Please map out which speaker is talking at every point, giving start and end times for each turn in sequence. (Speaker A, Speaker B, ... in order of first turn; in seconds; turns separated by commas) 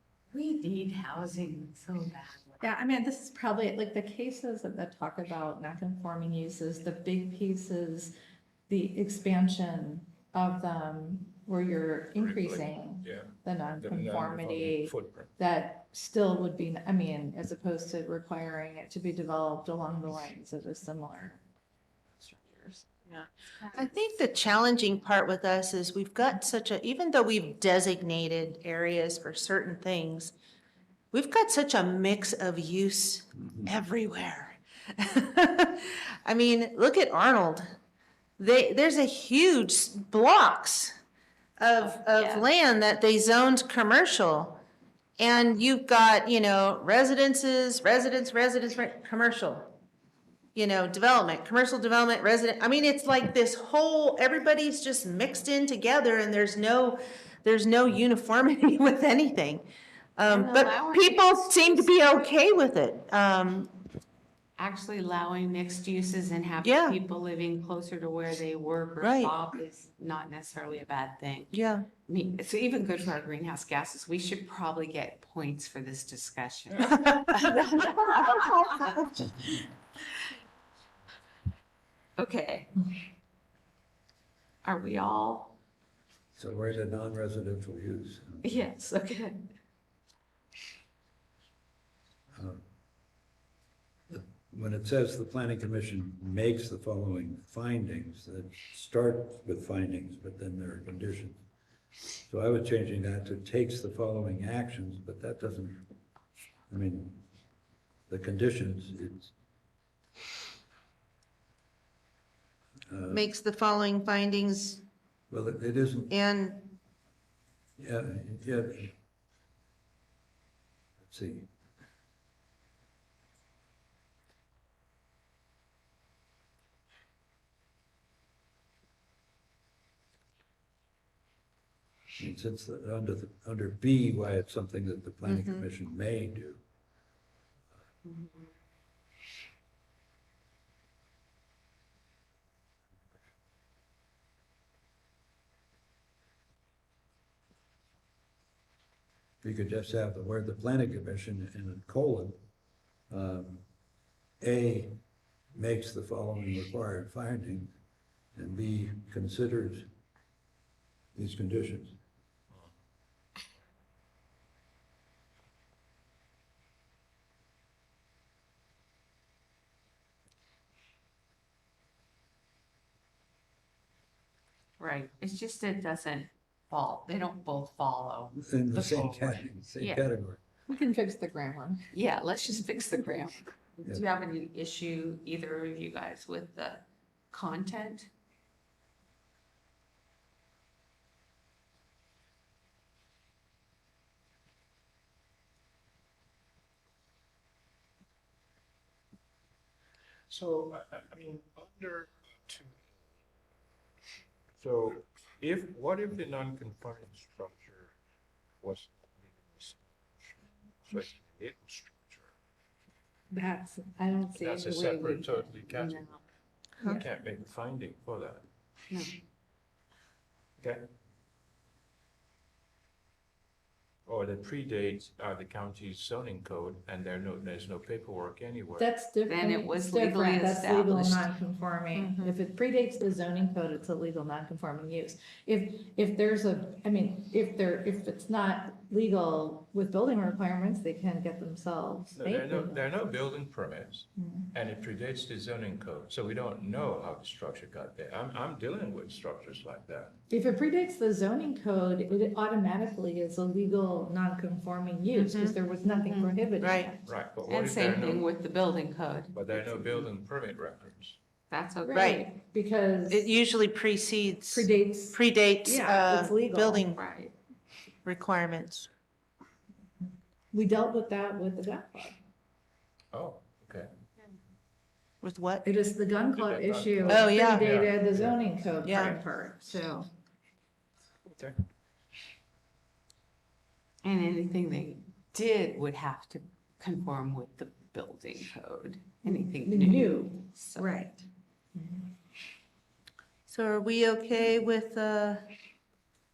Speaker A: 0.3-2.6, Speaker B: 2.6-8.1, Speaker B: 8.7-21.4, Speaker C: 12.2-15.3, Speaker B: 22.2-22.8, Speaker D: 23.1-30.3, Speaker D: 31.1-37.7, Speaker E: 33.5-33.7, Speaker D: 38.4-41.0, Speaker D: 41.6-44.6, Speaker A: 41.8-42.5, Speaker D: 45.2-49.8, Speaker D: 50.5-63.8, Speaker A: 60.3-62.4, Speaker A: 64.6-79.5, Speaker D: 66.6-67.0, Speaker D: 69.0-69.4, Speaker D: 71.5-71.9, Speaker D: 76.8-77.4, Speaker A: 82.2-82.9, Speaker A: 84.6-85.6, Speaker E: 86.3-88.6, Speaker A: 88.4-89.5, Speaker E: 92.3-92.6, Speaker E: 94.1-101.4, Speaker E: 102.3-105.9, Speaker E: 106.7-107.2, Speaker E: 108.1-109.3, Speaker E: 112.9-113.3, Speaker D: 113.1-114.8, Speaker E: 115.3-116.1, Speaker D: 116.1-116.7, Speaker E: 117.8-119.0, Speaker E: 121.0-121.5, Speaker E: 132.2-136.6, Speaker D: 135.2-135.7, Speaker E: 149.4-152.4, Speaker E: 153.1-153.6, Speaker E: 154.4-155.0, Speaker E: 155.6-157.7, Speaker E: 158.4-159.9, Speaker E: 161.2-162.0, Speaker A: 174.8-180.1, Speaker E: 178.4-180.4, Speaker B: 180.7-181.9, Speaker A: 181.9-188.1, Speaker C: 200.3-202.7, Speaker C: 204.6-207.9, Speaker C: 208.6-209.8, Speaker C: 210.9-212.3, Speaker B: 213.3-215.5, Speaker C: 214.3-216.2, Speaker A: 215.7-216.2, Speaker C: 216.8-218.4, Speaker C: 220.6-220.9, Speaker C: 224.1-228.9, Speaker B: 228.8-242.8, Speaker A: 229.2-231.3, Speaker D: 231.9-232.4, Speaker C: 242.1-250.2, Speaker B: 244.2-244.5, Speaker B: 250.3-257.0, Speaker D: 255.1-255.6, Speaker A: 255.8-256.8, Speaker D: 256.6-256.9, Speaker C: 257.0-258.3, Speaker A: 257.5-259.5, Speaker C: 259.3-261.2, Speaker A: 261.5-262.3, Speaker B: 261.8-263.3, Speaker D: 261.9-262.2, Speaker D: 263.1-267.0, Speaker B: 264.5-266.9, Speaker A: 266.9-267.4, Speaker D: 268.1-268.9, Speaker B: 270.5-272.2, Speaker C: 273.1-273.9, Speaker D: 275.2-275.6, Speaker B: 275.6-280.1, Speaker C: 276.3-278.4, Speaker D: 277.1-277.7, Speaker D: 278.8-279.2, Speaker A: 284.0-291.0, Speaker B: 289.2-292.1, Speaker D: 293.5-295.5